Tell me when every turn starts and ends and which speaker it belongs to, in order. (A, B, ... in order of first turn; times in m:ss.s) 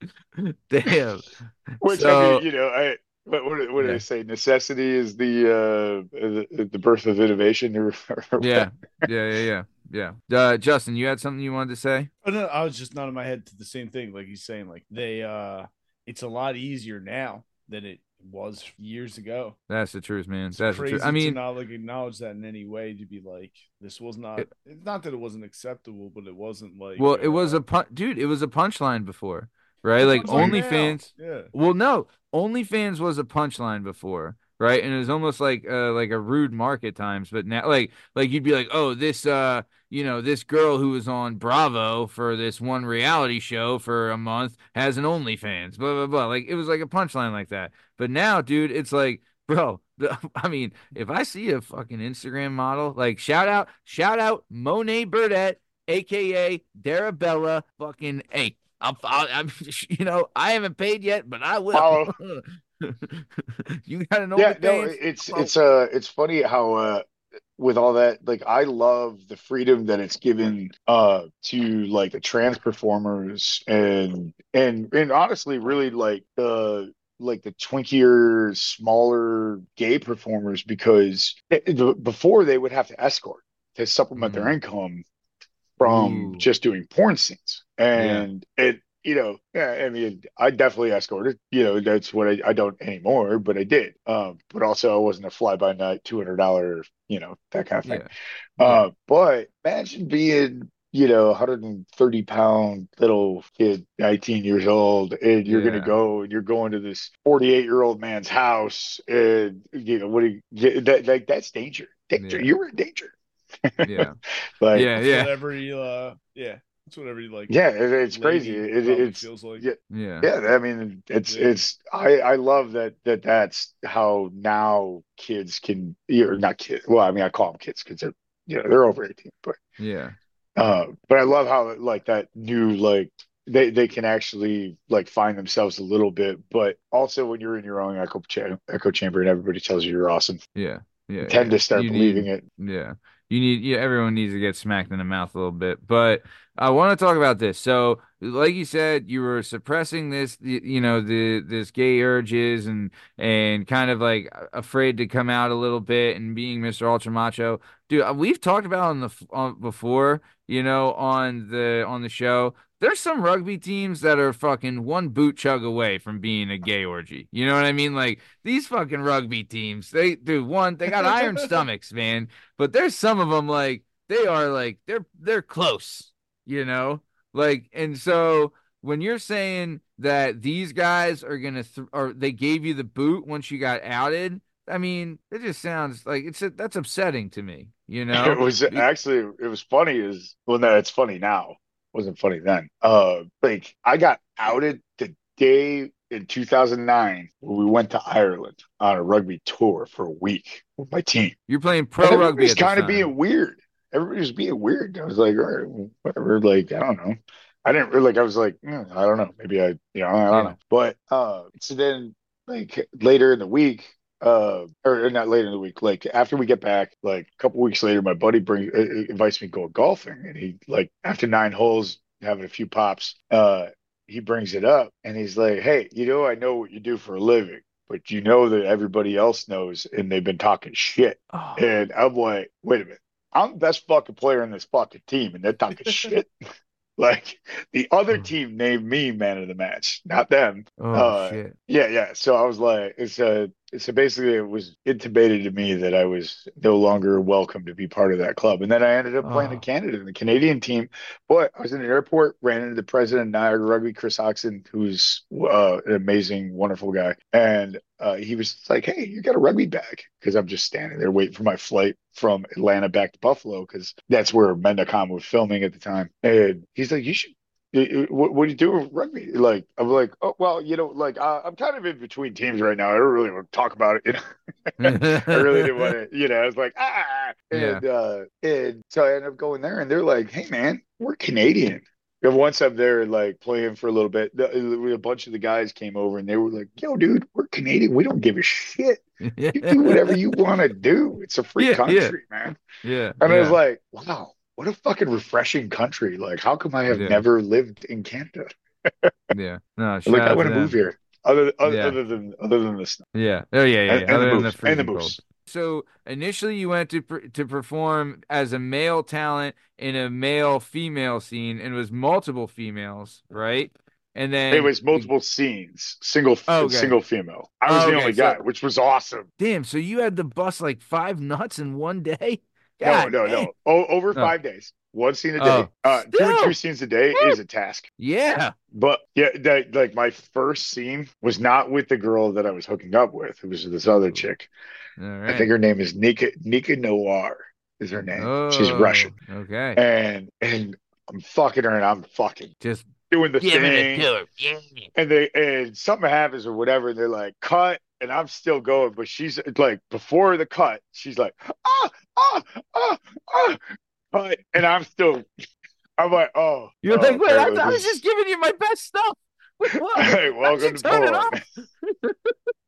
0:00.4-0:02.4 A
0:01.8-0:09.1 B
0:08.4-0:12.1 A
0:12.2-0:19.6 C
0:19.7-0:21.4 A
0:20.5-0:27.6 C
0:27.0-1:05.5 A
0:30.0-0:31.5 C
0:30.3-0:30.6 B
1:01.7-1:02.1 B
1:04.4-1:07.0 B
1:07.6-1:25.0 B
1:24.2-1:24.6 A
1:25.8-1:38.1 B
1:25.8-1:26.4 A
1:28.0-1:28.3 A
1:37.8-1:38.9 A
1:38.6-1:53.1 B
1:45.5-1:46.0 A
1:52.2-1:52.5 A
1:53.8-1:54.1 B
1:53.8-1:54.2 A
1:54.6-1:54.9 B
1:54.7-1:55.3 A
1:55.0-1:57.6 C
1:57.5-2:09.6 B
1:58.1-1:59.6 C
1:59.9-2:00.3 A
2:01.3-2:01.6 C
2:09.8-2:10.2 A
2:10.6-2:20.4 B
2:20.6-3:08.9 A
2:21.2-2:22.4 B
2:51.0-2:51.4 C
3:08.1-3:21.4 B
3:21.5-3:23.1 A
3:22.0-3:56.3 B
3:51.3-3:51.7 A
3:57.0-4:49.0 B
4:00.8-4:01.5 A
4:09.2-4:09.6 A
4:34.8-4:35.9 A
4:37.5-4:37.8 A
4:49.2-4:50.4 A
4:49.6-4:52.6 B
4:51.6-4:52.2 A
4:52.8-4:53.6 A
4:53.2-4:59.3 B
4:56.9-4:57.2 A
4:59.3-5:00.7 A
5:00.1-5:03.0 B
5:01.6-5:02.0 A
5:03.1-5:15.1 A
5:03.9-5:05.2 B
5:14.5-5:19.3 B
5:16.5-5:17.0 A
5:17.7-5:18.4 A
5:19.4-5:23.5 A
5:22.8-5:27.9 B
5:25.4-5:26.6 A
5:28.0-5:28.5 A
5:28.7-5:34.5 B
5:33.8-5:34.3 A
5:35.0-5:35.5 A
5:35.3-5:39.1 B
5:38.2-5:39.8 A
5:39.8-5:42.5 B
5:42.6-5:42.9 A
5:43.1-5:44.1 B
5:43.4-5:44.9 A
5:45.0-5:55.4 B
5:56.0-5:58.0 B
5:56.8-6:02.3 A
6:00.0-6:01.4 B